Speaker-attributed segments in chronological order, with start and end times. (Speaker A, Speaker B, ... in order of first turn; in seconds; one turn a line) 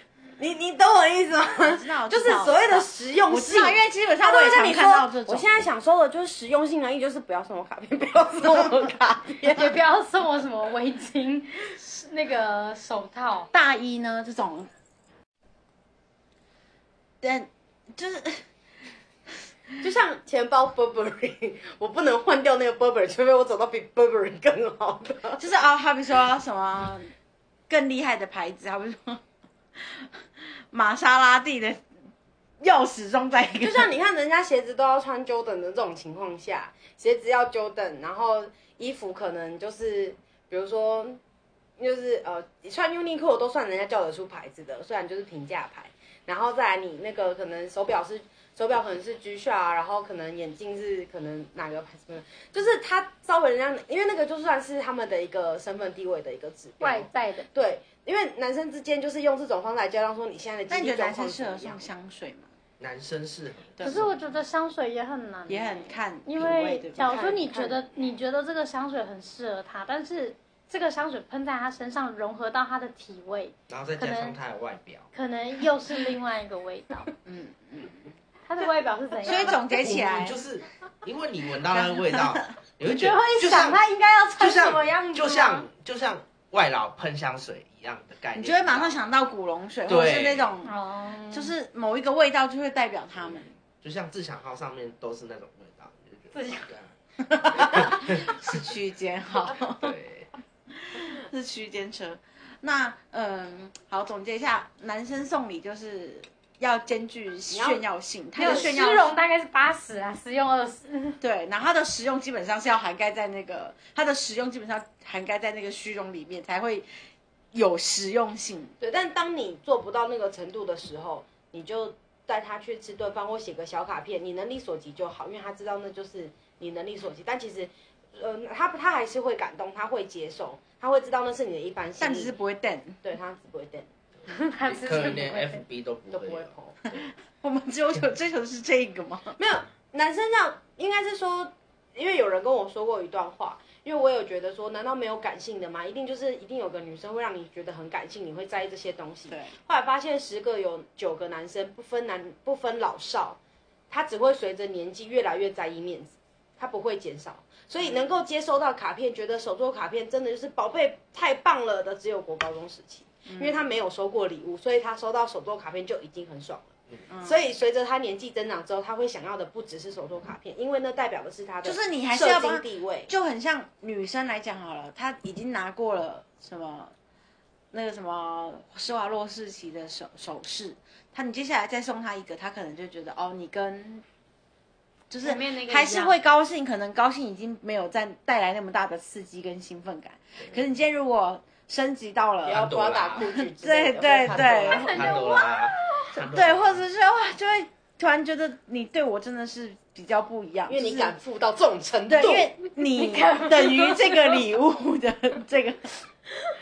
Speaker A: 0.4-9.8
Speaker B: 1.6-5.5
Speaker C: 9.5-13.5
Speaker B: 13.5-14.7
Speaker B: 17.2-18.4
Speaker A: 19.8-25.4
Speaker B: 25.4-27.1
Speaker B: 27.7-29.2
Speaker B: 29.8-30.1
Speaker B: 30.7-31.8
Speaker B: 32.6-33.9
Speaker A: 33.6-41.2
Speaker A: 41.8-61.9
Speaker C: 56.8-57.5
Speaker B: 60.7-62.5
Speaker D: 62.8-64.2
Speaker B: 63.8-64.1
Speaker C: 63.8-74.4
Speaker B: 65.5-67.1
Speaker A: 67.0-67.9
Speaker D: 73.7-75.1
Speaker C: 75.1-77.1
Speaker B: 77.2-78.1
Speaker C: 78.5-79.7
Speaker B: 79.2-80.4
Speaker D: 79.4-83.8
Speaker B: 81.7-82.5
Speaker C: 82.8-85.7
Speaker D: 84.4-89.1
Speaker B: 88.3-90.8
Speaker D: 89.9-90.5
Speaker C: 90.6-91.5
Speaker B: 91.3-93.5
Speaker D: 93.3-98.5
Speaker B: 97.6-100.0
Speaker D: 99.7-100.3
Speaker B: 100.7-109.1
Speaker A: 107.5-107.8
Speaker C: 108.4-111.2
Speaker A: 108.4-108.8
Speaker B: 111.2-116.9
Speaker B: 117.5-118.8
Speaker A: 118.8-132.3
Speaker B: 132.0-133.0
Speaker A: 133.0-133.9
Speaker C: 134.3-135.7
Speaker D: 134.7-137.1
Speaker A: 136.1-136.8
Speaker B: 137.4-139.4
Speaker A: 139.4-153.4
Speaker B: 149.3-149.5
Speaker A: 153.9-166.7
Speaker B: 163.3-163.6
Speaker B: 167.1-167.4
Speaker A: 167.2-173.1
Speaker B: 171.6-176.9
Speaker B: 177.7-184.0
Speaker B: 185.1-192.7
Speaker A: 185.2-186.2
Speaker D: 192.5-193.3
Speaker A: 192.5-195.2
Speaker B: 193.2-195.2
Speaker D: 194.3-196.8
Speaker C: 194.7-196.1
Speaker B: 196.2-201.2
Speaker A: 200.7-202.5
Speaker B: 202.1-206.0
Speaker C: 202.8-204.5